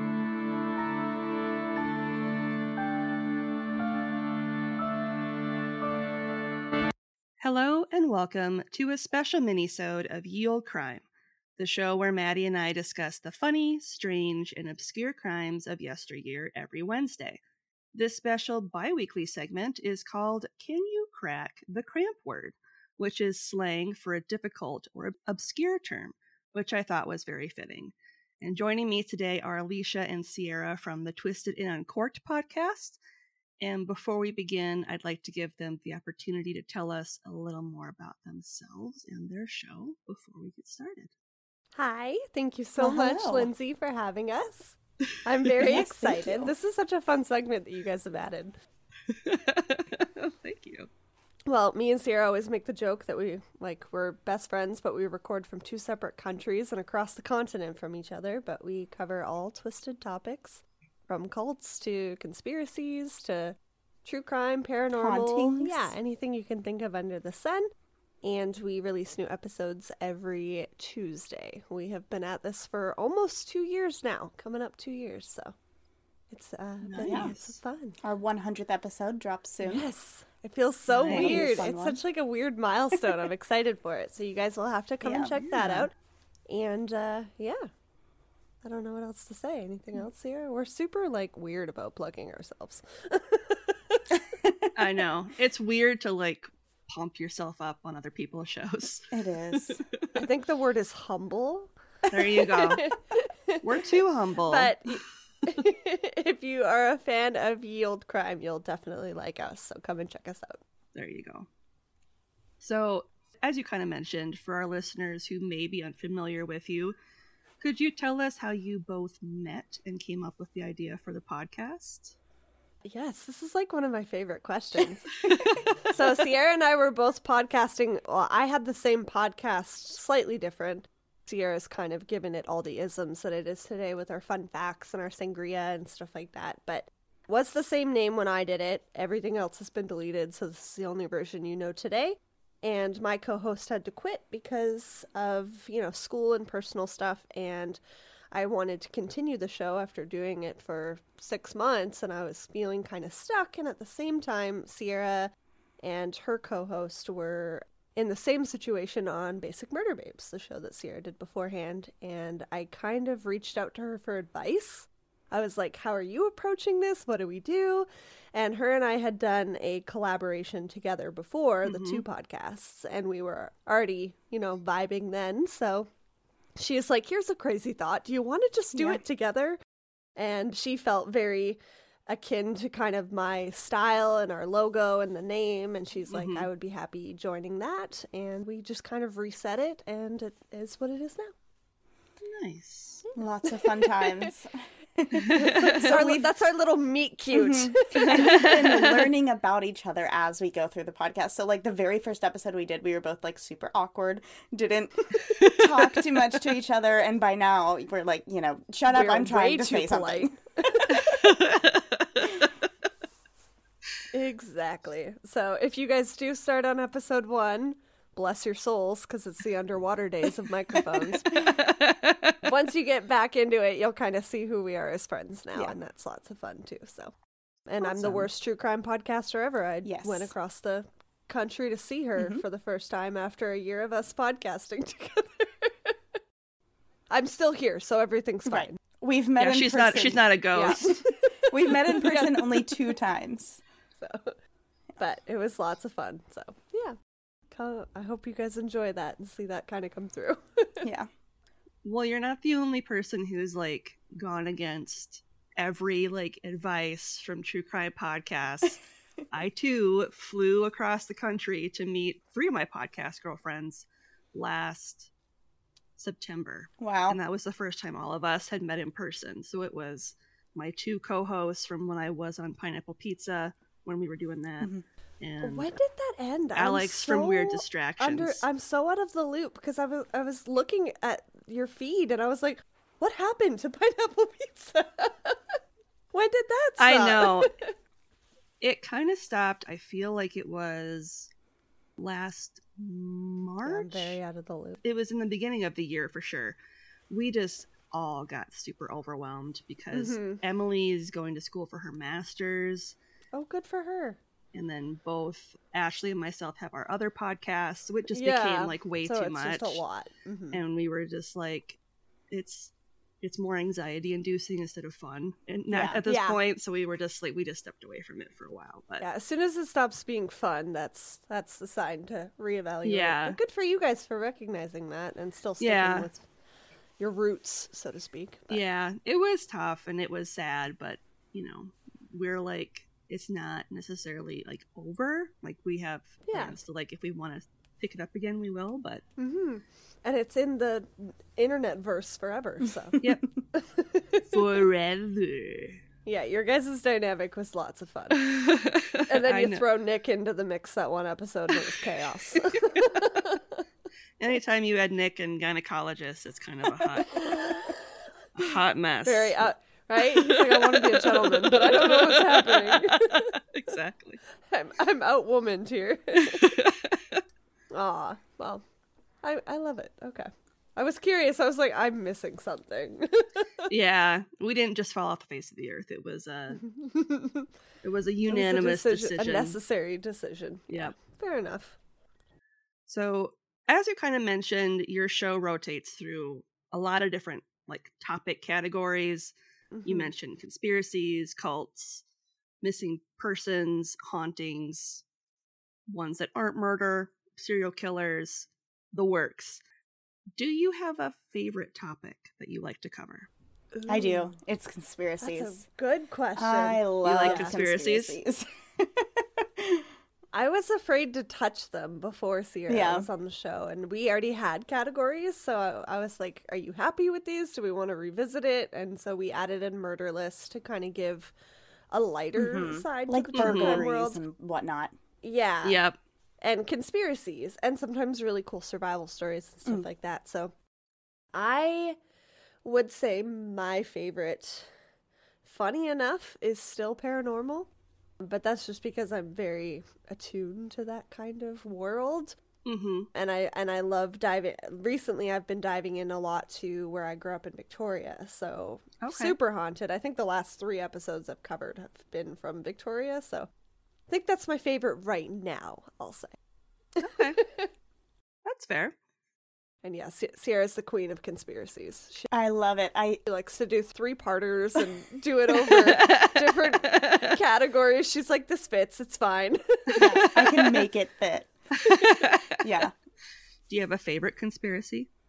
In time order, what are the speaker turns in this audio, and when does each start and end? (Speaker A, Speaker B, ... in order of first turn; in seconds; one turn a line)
Speaker A: 7.4-11.0
Speaker A: 11.6-17.4
Speaker A: 17.9-33.0
Speaker A: 33.6-41.1
Speaker B: 41.7-48.5
Speaker C: 42.8-43.5
Speaker C: 45.6-46.5
Speaker A: 49.1-50.9
Speaker B: 51.5-67.7
Speaker C: 65.0-65.9
Speaker B: 68.2-75.5
Speaker B: 76.3-78.0
Speaker A: 76.8-77.6
Speaker C: 77.0-77.3
Speaker C: 78.0-79.9
Speaker B: 79.6-85.9
Speaker A: 81.0-81.4
Speaker C: 81.0-82.0
Speaker C: 85.0-85.4
Speaker A: 85.5-85.8
Speaker B: 86.5-87.7
Speaker B: 88.6-94.0
Speaker C: 94.2-94.7
Speaker A: 94.7-99.9
Speaker C: 99.1-99.8
Speaker B: 100.1-101.7
Speaker A: 102.1-102.9
Speaker B: 102.5-103.8
Speaker A: 103.6-104.8
Speaker B: 104.4-110.6
Speaker A: 110.9-111.5
Speaker A: 112.6-117.0
Speaker A: 117.6-122.1
Speaker B: 122.8-125.2
Speaker B: 125.8-147.8
Speaker B: 148.3-175.9
Speaker A: 171.6-172.0
Speaker B: 176.6-179.6
Speaker C: 178.7-179.0
Speaker B: 180.2-191.3
Speaker A: 186.1-186.5
Speaker A: 192.2-193.0
Speaker B: 193.1-194.3
Speaker C: 193.2-196.3
Speaker A: 195.1-196.0
Speaker B: 195.3-199.0
Speaker C: 197.3-211.0
Speaker A: 198.1-199.1
Speaker A: 205.2-205.8
Speaker B: 208.9-210.9
Speaker A: 210.9-212.5
Speaker B: 214.1-221.6
Speaker A: 221.3-222.4
Speaker B: 222.4-227.1
Speaker B: 227.7-235.9
Speaker C: 227.8-228.3
Speaker C: 229.8-230.3
Speaker B: 237.1-238.8
Speaker C: 238.4-243.6
Speaker A: 239.4-240.9
Speaker B: 240.5-242.8
Speaker B: 243.9-244.3
Speaker B: 245.0-246.9
Speaker B: 247.5-250.8
Speaker C: 250.8-251.1
Speaker A: 251.8-258.8
Speaker A: 259.3-265.1
Speaker A: 266.0-275.7
Speaker C: 266.8-267.2
Speaker B: 275.4-285.6
Speaker A: 276.6-278.4
Speaker B: 286.1-287.7
Speaker A: 286.8-287.5
Speaker A: 288.6-291.3
Speaker A: 292.0-294.2
Speaker B: 293.6-294.8
Speaker A: 294.8-296.6
Speaker A: 297.1-302.9
Speaker B: 299.9-300.4
Speaker B: 303.3-304.2
Speaker A: 304.5-309.8
Speaker B: 308.1-310.6
Speaker A: 310.5-311.8
Speaker A: 312.3-319.1
Speaker C: 315.7-316.0
Speaker B: 316.0-316.4
Speaker B: 319.0-326.2
Speaker A: 322.8-323.4
Speaker A: 325.6-326.1
Speaker B: 327.0-328.6
Speaker A: 328.5-339.0
Speaker B: 336.3-336.5
Speaker B: 339.2-343.0
Speaker B: 343.5-344.4
Speaker A: 344.3-345.8
Speaker B: 346.1-348.2
Speaker A: 348.1-349.6
Speaker B: 349.1-353.6
Speaker A: 354.2-357.5
Speaker B: 357.1-357.8
Speaker A: 358.4-359.4
Speaker B: 359.0-363.3
Speaker A: 360.1-364.2
Speaker B: 364.5-366.6
Speaker A: 366.2-367.2
Speaker B: 367.7-368.6
Speaker B: 369.2-373.7
Speaker A: 373.7-376.6
Speaker B: 376.6-377.5
Speaker A: 377.8-379.6
Speaker B: 378.3-381.8
Speaker A: 382.9-389.3
Speaker B: 389.7-390.1
Speaker A: 389.8-392.0
Speaker A: 392.6-395.0
Speaker A: 395.9-399.6
Speaker A: 400.4-403.3
Speaker B: 403.7-404.3
Speaker C: 403.9-405.6
Speaker B: 405.2-407.5
Speaker C: 406.4-409.9
Speaker A: 407.0-408.2
Speaker B: 410.3-421.3
Speaker C: 412.7-413.1
Speaker B: 421.9-424.2
Speaker C: 422.4-424.9
Speaker A: 423.3-423.8
Speaker B: 425.2-425.8
Speaker A: 425.6-426.0
Speaker B: 426.4-430.5
Speaker B: 431.3-432.0
Speaker B: 432.6-434.7
Speaker B: 435.4-437.7
Speaker B: 438.2-442.4
Speaker A: 442.6-443.1
Speaker B: 443.1-453.5
Speaker A: 449.0-449.4
Speaker B: 454.1-456.3
Speaker A: 457.0-457.4
Speaker B: 457.4-457.7
Speaker A: 458.4-458.9
Speaker B: 459.8-462.3
Speaker C: 462.3-463.2
Speaker B: 463.2-470.3
Speaker A: 465.7-467.4
Speaker A: 469.9-470.8
Speaker C: 469.9-471.5
Speaker A: 471.7-472.7
Speaker C: 472.5-472.9
Speaker A: 473.7-475.1